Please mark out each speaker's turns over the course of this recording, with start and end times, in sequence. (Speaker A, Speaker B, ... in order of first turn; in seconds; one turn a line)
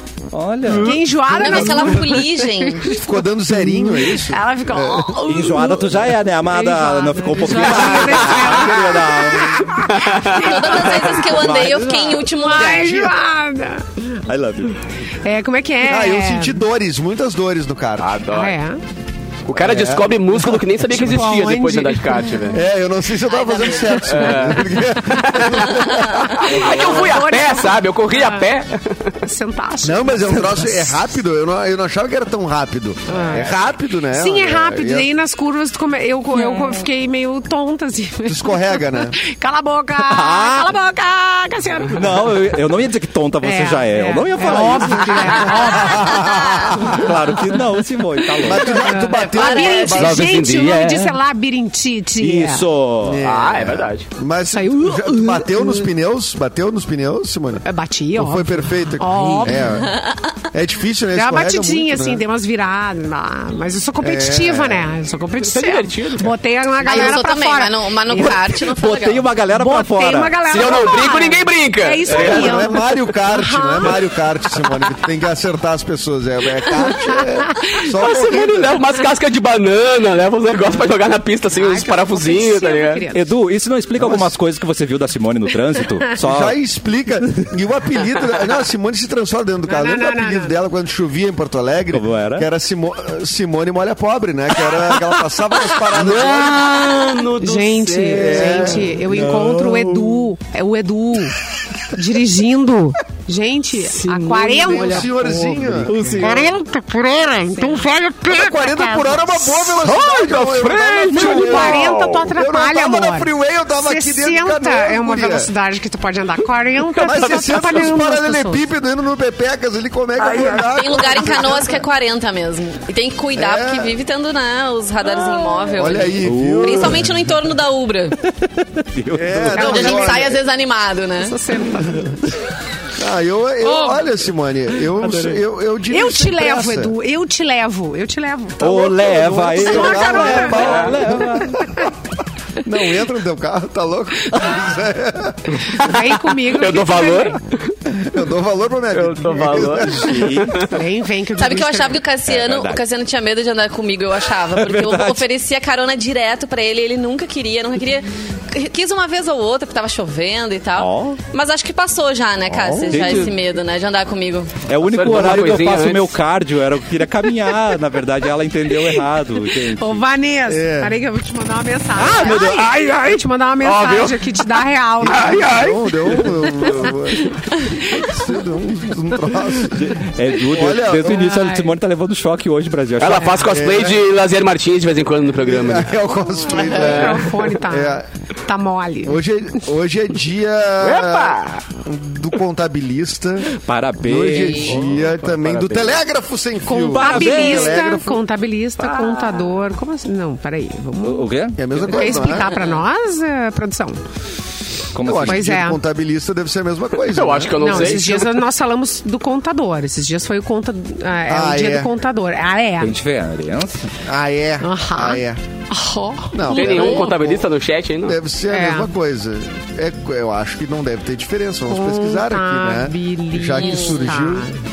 Speaker A: 0.3-1.5
Speaker B: 0.7-1.0
Speaker C: 0.7-10.9
Speaker D: 1.3-2.9
Speaker E: 2.9-5.2
Speaker A: 5.2-9.8
Speaker B: 7.9-8.7
Speaker B: 9.9-11.2
Speaker D: 10.2-12.9
Speaker A: 11.0-12.2
Speaker E: 11.4-11.9
Speaker C: 12.2-14.1
Speaker E: 12.6-13.2
Speaker A: 14.3-14.8
Speaker C: 15.2-16.6
Speaker E: 15.8-18.2
Speaker B: 18.0-18.6
Speaker C: 18.3-18.8
Speaker B: 19.5-22.6
Speaker E: 19.6-20.3
Speaker C: 20.8-22.4
Speaker E: 22.5-26.4
Speaker D: 23.2-24.5
Speaker B: 24.0-29.2
Speaker C: 25.0-25.4
Speaker D: 25.7-26.3
Speaker C: 26.3-28.5
Speaker A: 26.6-26.9
Speaker C: 29.2-30.9
Speaker E: 29.8-35.1
Speaker C: 33.1-33.5
Speaker C: 34.1-42.6
Speaker A: 36.3-36.8
Speaker E: 38.2-39.2
Speaker A: 40.0-40.7
Speaker A: 42.0-45.5
Speaker C: 43.4-47.0
Speaker E: 45.0-47.0
Speaker D: 46.2-46.7
Speaker A: 46.9-48.8
Speaker E: 48.4-50.4
Speaker C: 48.6-52.6
Speaker D: 49.0-50.1
Speaker B: 49.9-51.1
Speaker A: 52.2-53.2
Speaker E: 53.0-57.6
Speaker B: 53.2-54.1
Speaker C: 54.5-55.9
Speaker C: 57.6-59.6
Speaker E: 58.2-60.0
Speaker A: 59.1-59.6
Speaker D: 59.8-60.3
Speaker E: 60.5-62.2
Speaker C: 61.1-68.6
Speaker E: 64.0-64.9
Speaker B: 65.4-66.3
Speaker D: 66.8-69.3
Speaker A: 68.6-70.5
Speaker C: 69.5-74.0
Speaker B: 70.5-72.8
Speaker E: 72.1-78.8
Speaker C: 77.1-77.8
Speaker B: 78.0-83.0
Speaker C: 81.6-83.3
Speaker A: 83.1-86.5
Speaker E: 84.0-84.3
Speaker E: 86.2-96.8
Speaker C: 89.7-90.5
Speaker A: 91.9-92.5
Speaker B: 95.9-98.8
Speaker C: 97.4-101.4
Speaker E: 98.1-99.0
Speaker A: 99.0-100.3
Speaker C: 101.9-109.1
Speaker B: 103.8-105.1
Speaker E: 104.6-106.0
Speaker A: 105.9-106.6
Speaker B: 107.6-108.0
Speaker E: 108.3-115.5
Speaker B: 109.7-112.3
Speaker C: 111.1-118.6
Speaker B: 116.9-117.9
Speaker E: 117.0-121.8
Speaker B: 120.2-120.8
Speaker D: 120.6-128.2
Speaker E: 123.3-124.0
Speaker B: 125.0-125.9
Speaker E: 125.7-127.1
Speaker A: 126.2-127.2
Speaker A: 128.2-129.8
Speaker E: 129.1-130.4
Speaker C: 129.5-130.3
Speaker D: 129.5-131.4
Speaker C: 131.2-132.1
Speaker E: 133.0-136.9
Speaker C: 133.6-134.0
Speaker A: 135.0-135.4
Speaker C: 135.9-141.1
Speaker A: 138.6-141.9
Speaker E: 139.6-141.5
Speaker B: 140.6-140.9
Speaker E: 142.6-145.7
Speaker C: 145.7-147.4
Speaker B: 145.8-147.7
Speaker E: 147.9-150.3
Speaker B: 148.9-150.7
Speaker A: 149.7-150.7
Speaker C: 150.5-152.0
Speaker D: 151.4-164.6
Speaker A: 152.3-152.8
Speaker A: 154.5-155.2
Speaker A: 160.8-161.2
Speaker A: 162.5-163.4
Speaker A: 164.6-170.0
Speaker B: 164.9-166.2
Speaker C: 169.7-175.5
Speaker E: 170.5-171.0
Speaker A: 172.0-173.0
Speaker B: 172.3-174.2
Speaker E: 175.0-181.4
Speaker B: 175.1-176.9
Speaker A: 179.7-183.5
Speaker C: 181.2-181.7
Speaker B: 183.0-185.9
Speaker E: 183.5-184.0
Speaker E: 185.4-188.1
Speaker C: 186.5-189.2
Speaker B: 186.7-187.5
Speaker E: 189.0-198.2
Speaker B: 190.8-191.6
Speaker A: 193.5-194.9
Speaker D: 194.3-194.8
Speaker B: 194.6-196.0
Speaker C: 196.7-204.0
Speaker A: 196.8-197.9
Speaker B: 198.8-199.5
Speaker A: 201.0-201.9
Speaker E: 201.6-202.5
Speaker B: 202.2-202.8
Speaker A: 204.9-205.4
Speaker E: 205.0-208.1
Speaker C: 205.2-205.8
Speaker B: 207.0-208.3
Speaker C: 207.6-213.0
Speaker E: 211.3-211.9
Speaker A: 212.8-213.9
Speaker E: 214.1-215.4
Speaker C: 214.6-215.2
Speaker C: 215.7-216.3
Speaker E: 216.3-217.5
Speaker D: 216.4-217.1
Speaker B: 216.5-218.2
Speaker E: 218.0-224.5
Speaker C: 218.5-218.9
Speaker C: 221.7-224.6
Speaker D: 223.6-224.0